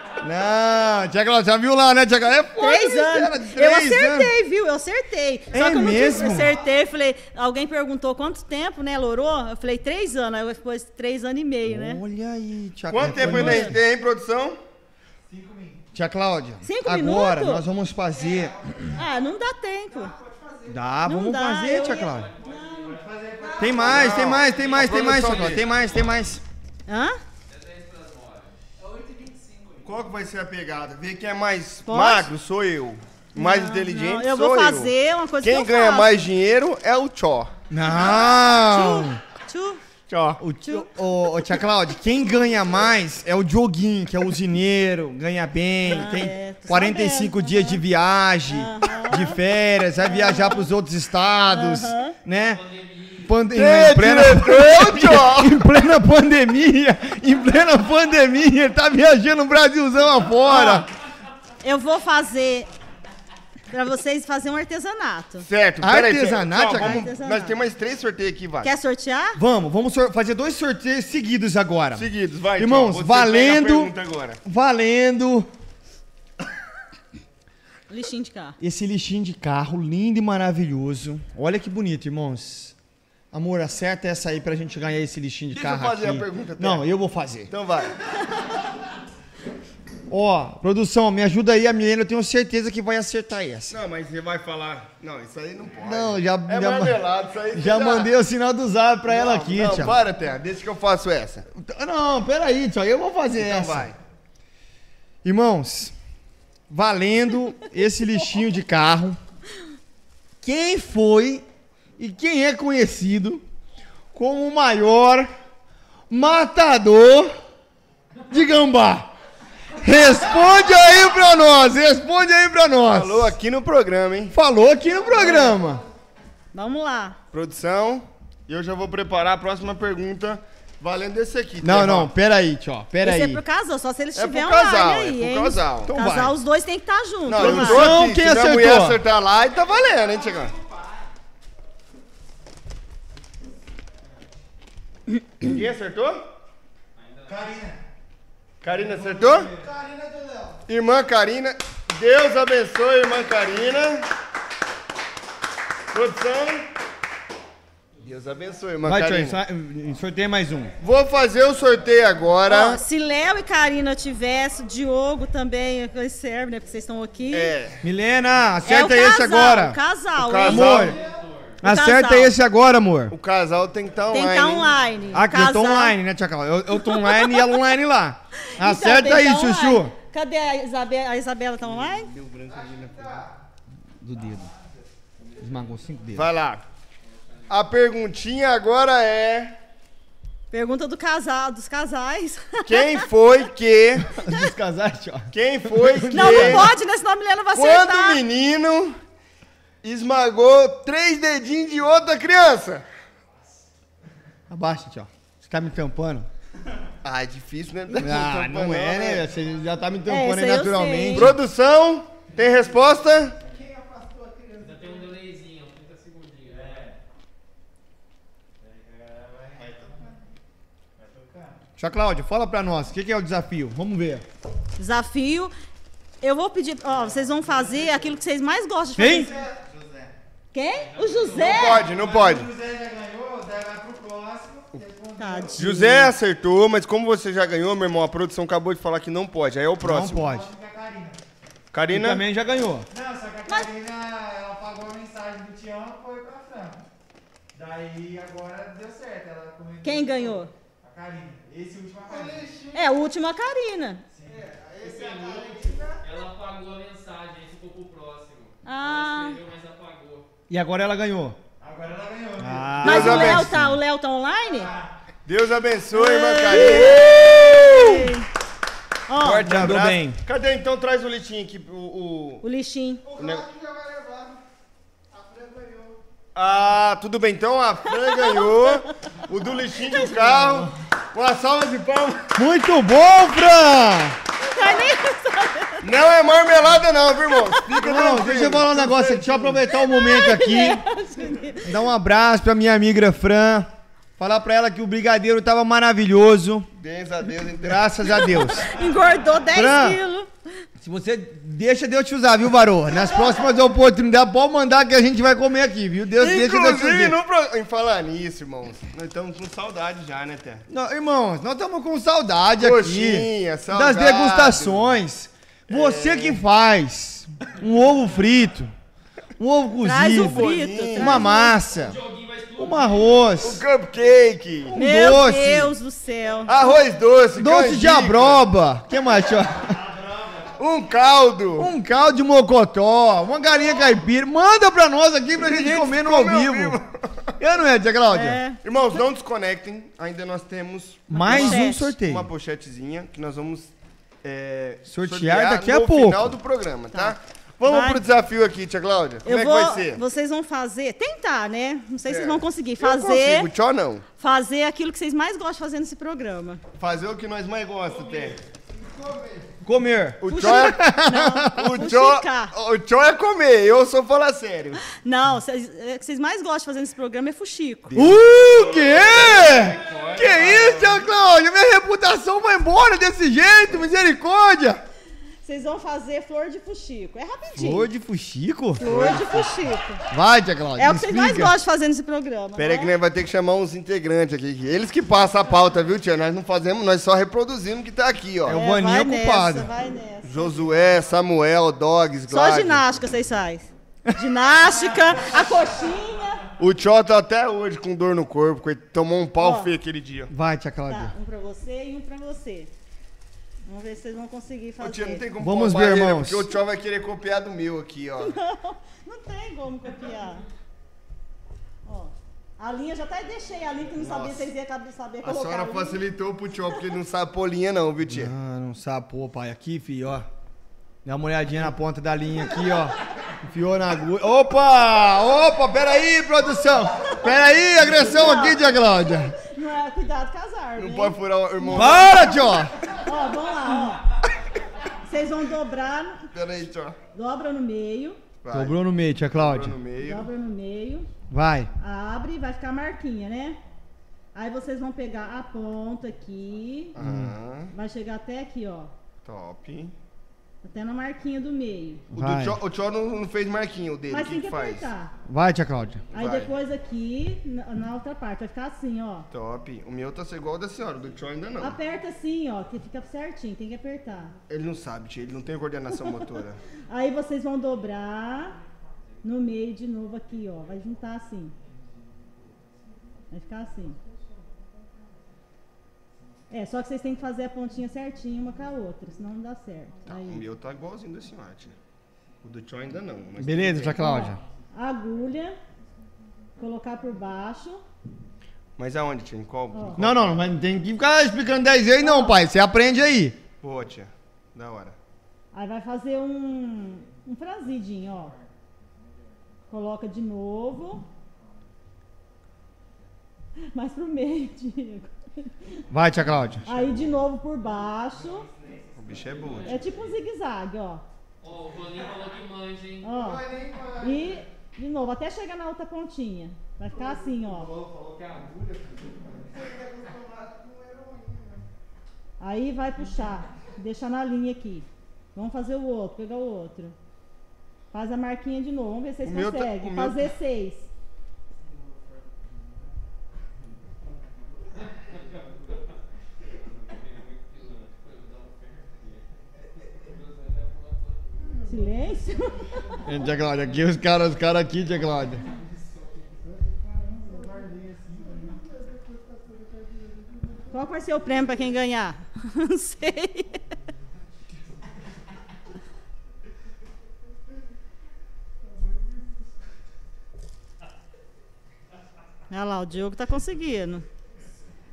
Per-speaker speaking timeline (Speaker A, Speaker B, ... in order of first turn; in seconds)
Speaker A: 0.2-4.3, 5.5-6.6, 11.7-13.8, 15.9-19.0, 20.7-22.3, 23.6-26.4, 37.7-39.2, 40.4-52.6, 53.2-60.9, 65.8-67.0, 69.3-73.9, 74.4-75.5, 78.6-82.7, 83.3-87.5, 90.1-93.8, 95.8-100.0, 101.5-103.9, 105.2-105.9, 106.7-109.2, 110.4-111.4, 112.0-113.4, 114.1-115.3, 116.1-117.3, 118.3-119.1, 119.8-123.3, 124.3-125.8, 131.6-133.4, 135.8-136.3, 137.3-139.0, 158.8-160.7, 167.8-169.8, 170.4-171.0, 171.6-173.1, 175.1-179.9, 184.0-184.5, 185.4-186.3, 194.0-196.7, 204.5-206.3, 208.0-211.4, 221.8-224.2, 229.0-229.3, 235.6-236.1, 239.8-240.5, 241.9-242.9, 260.5-261.4, 262.4-263.8, 266.5-268.1, 269.4-270.2, 280.0-280.7, 282.3-284.2, 287.8-290.8, 291.6-296.7, 297.6-298.7, 299.5-300.0, 300.8-307.2, 310.7-318.7, 319.4-322.0, 322.6-323.6, 324.7-325.7, 327.4-329.8, 331.6-336.8, 337.4-338.4, 341.1-342.3, 344.9-346.4, 359.6-361.8, 367.9-374.8, 377.6-379.4, 380.1-381.5, 388.4-389.7, 400.3-401.1, 405.4-406.5, 418.1-420.3, 421.0-429.3, 431.7-432.7, 438.5-439.8, 441.3-441.7, 447.0-447.3, 452.1-452.6, 455.2-456.1, 483.4-484.4, 490.0-493.4, 505.9-506.7, 543.0-545.4
Speaker B: 2.6-12.0, 13.2-13.7, 16.6-17.6, 18.9-20.1, 21.0-23.0, 26.9-27.2, 31.9-32.3, 33.3-36.3, 37.9-39.8, 45.8-47.8, 48.5-49.4, 50.0-50.7, 51.5-52.2, 60.5-60.9, 61.6-62.7, 63.7-65.5, 66.8-67.6, 68.6-69.4, 77.9-78.6, 125.2-125.4, 126.5-127.2, 133.0-137.9, 162.5-167.5, 168.6-170.9, 171.6-172.3, 174.1-175.9, 176.8-177.6, 178.5-182.1, 190.5-193.0, 196.1-198.2, 210.1-211.3, 224.8-225.5, 226.2-229.3, 230.5-231.9, 235.2-235.6, 249.8-250.5, 252.7-254.0, 258.6-259.4, 262.8-264.7, 265.9-268.3, 269.1-269.7, 272.4-273.1, 277.9-278.8, 284.5-285.8, 289.7-291.7, 298.1-300.6, 319.8-321.6, 324.7-326.6, 338.1-338.6, 341.1-341.8, 346.9-348.0, 349.2-353.5, 354.2-356.6, 360.3-362.5, 364.9-367.9, 375.4-377.9, 378.8-380.0, 380.8-382.9, 388.5-390.6, 392.3-396.4, 399.4-399.7, 400.9-402.7, 403.6-405.2, 408.2-410.4, 411.8-416.0, 427.9-434.1, 435.0-436.2, 437.1-438.2, 440.0-441.1, 441.8-443.6, 444.3-446.9, 447.7-448.9, 450.6-452.0, 454.1-455.1, 456.1-459.3, 461.6-464.3, 466.9-468.6, 469.2-471.5, 473.3-474.0, 476.5-480.4, 484.0-485.6, 486.6-487.8, 489.7-490.0, 492.0-492.4, 495.5-498.3, 499.7-501.1, 503.7-505.7, 506.6-508.5, 509.6-511.0, 513.0-517.7, 522.4-527.0, 527.9-530.9, 541.6-542.7, 550.7-553.6, 562.5-564.0
Speaker C: 12.9-14.6, 23.7-25.7, 29.8-37.5, 40.1-40.4, 53.5-55.6, 65.5-68.7, 71.9-74.4, 85.5-86.8, 87.5-88.0, 93.7-98.1, 99.1-101.5, 103.4-104.0, 122.9-124.3, 127.3-132.1, 134.1-135.9, 137.3-140.5, 145.4-146.3, 148.6-149.5, 150.7-154.1, 155.9-156.7, 158.0-159.4, 160.8-162.8, 167.3-167.8, 170.2-171.0, 173.1-174.7, 181.7-183.2, 186.1-186.6, 187.5-189.5, 192.6-194.1, 195.3-196.7, 197.5-199.0, 199.8-202.8, 207.0-209.3, 211.1-213.4, 231.3-232.5, 235.6-240.2, 241.7-242.2, 262.8-263.5, 265.2-267.1, 269.2-272.4, 273.2-273.4, 276.3-282.3, 285.8-289.6, 296.8-298.2, 306.2-310.6, 312.6-314.9, 315.7-316.4, 320.1-321.3, 323.4-324.8, 326.4-328.4, 330.6-331.7, 335.4-337.3, 338.6-343.7, 344.2-350.0, 352.1-354.0, 356.8-358.4, 360.2-360.8, 361.5-364.8, 367.9-371.0, 378.8-379.4, 382.6-388.6, 390.2-392.8, 396.6-400.3, 404.8-408.3, 414.0-414.5, 415.2-418.3, 430.8-432.4, 436.3-436.9, 438.4-438.8, 439.3-440.3, 446.9-447.7, 449.2-449.9, 452.1-454.9, 456.1-456.5, 459.3-461.8, 464.5-466.6, 480.1-481.8, 482.4-484.1, 488.8-490.4, 493.6-494.9, 508.9-509.8, 529.2-530.3
Speaker D: 15.3-15.8, 20.1-20.7, 22.7-24.2, 140.6-140.8, 147.2-147.8, 148.6-150.6, 182.5-183.4, 184.3-184.8, 213.4-214.9, 216.4-217.0, 218.6-220.2, 220.9-221.6, 226.9-228.1, 229.0-230.1, 231.5-235.6, 240.1-241.2, 242.9-246.8, 247.5-252.8, 254.1-256.0, 261.6-262.8, 264.6-264.9, 273.1-274.3, 275.1-276.0, 329.6-330.6, 358.7-359.5, 508.4-509.7, 513.1-514.4, 517.0-521.3, 546.7-548.6
Speaker E: 21.9-22.9, 24.5-26.2, 27.5-28.6, 52.3-53.4, 146.9-147.5, 170.8-171.6, 187.0-187.5, 214.6-216.8, 230.8-231.9, 256.0-260.3, 321.7-323.3, 511.4-513.1, 534.7-535.9, 536.4-541.6